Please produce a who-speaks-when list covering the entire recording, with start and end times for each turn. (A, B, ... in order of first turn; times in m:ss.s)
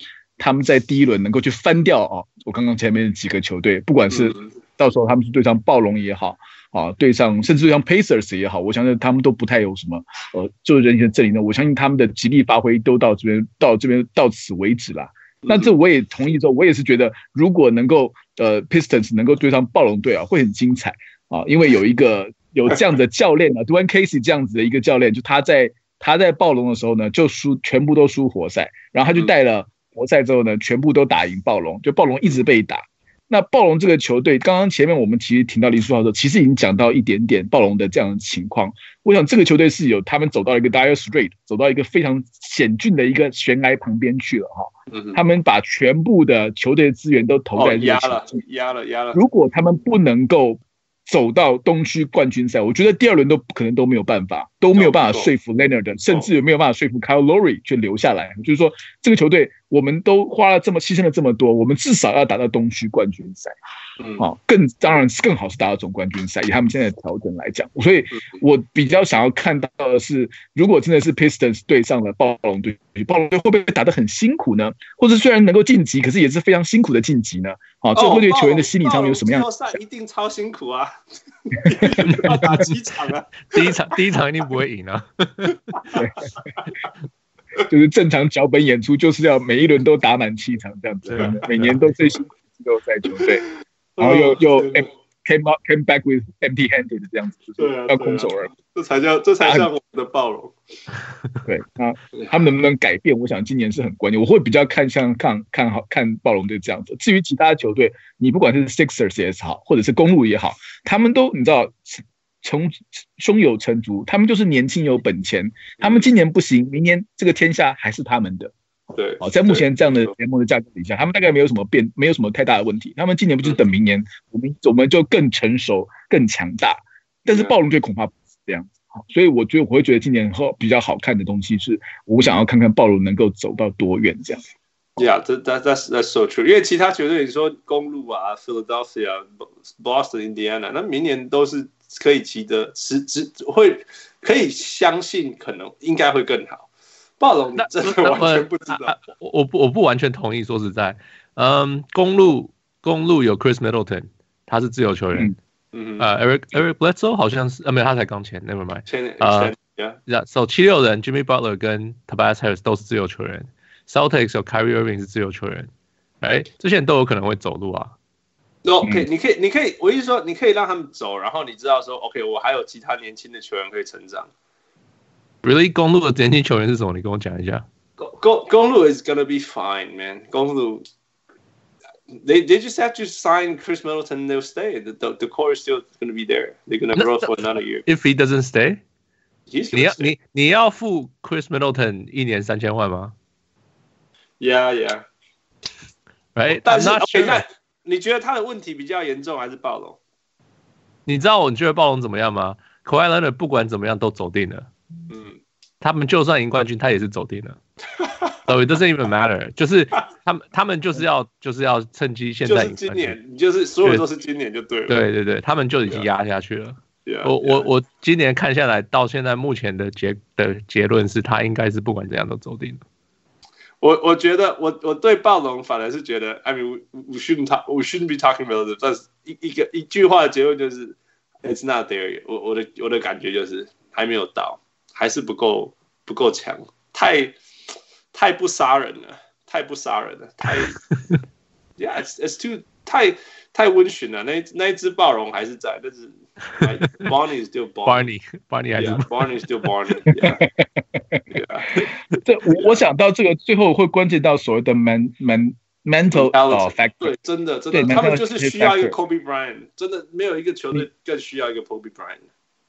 0:00.4-0:48.3 A
0:04.1-0:04.4 B
0:15.4-0:15.7 B
0:44.9-0:45.2 B
0:47.6-0:49.2 B
0:49.1-1:03.5 A
0:54.8-0:55.3 B
1:04.0-1:04.2 B
1:04.2-1:19.5 A
1:18.0-1:20.9 B
1:21.5-1:23.8 B
1:23.5-1:25.8 C
1:26.0-1:26.3 A
1:27.7-1:33.4 A
1:31.1-1:31.8 C
1:34.0-1:34.9 B
1:34.0-1:38.5 A
1:37.6-1:40.6 B
1:39.4-1:39.7 A
1:41.5-1:58.5 A
1:55.8-1:56.1 B
1:59.0-2:00.1 B
1:59.2-2:14.4 A
2:15.0-2:26.7 B
2:27.2-2:29.0 B
2:27.6-2:35.3 C
2:35.7-2:36.0 B
2:36.0-2:39.5 C
2:38.9-2:40.0 B
2:40.1-2:45.7 C
2:46.2-2:48.0 C
2:48.6-2:54.3 B
2:55.4-2:57.6 C
2:58.0-3:00.8 B
3:02.1-3:07.8 B
3:07.0-3:07.3 C
3:07.8-3:08.8 C
3:09.5-3:10.1 B
3:09.7-3:13.2 C
3:14.4-3:15.0 B
3:16.4-3:17.4 C
3:16.5-3:20.0 B
3:21.1-3:24.7 C
3:25.1-3:25.4 B
3:25.8-3:27.6 C
3:28.0-3:28.3 B
3:28.5-3:33.2 C
3:32.5-3:35.0 B
3:34.9-3:42.8 C
3:37.1-3:37.7 B
3:43.8-3:57.4 B
3:58.1-4:00.8 B
4:00.7-4:01.2 C
4:01.8-4:08.1 B
4:07.9-4:09.3 C
4:08.8-4:10.4 B
4:10.4-4:11.2 A
4:11.3-4:11.8 B
4:12.2-4:17.2 A
4:12.6-4:12.8 B
4:16.1-4:22.3 B
4:17.7-4:19.0 A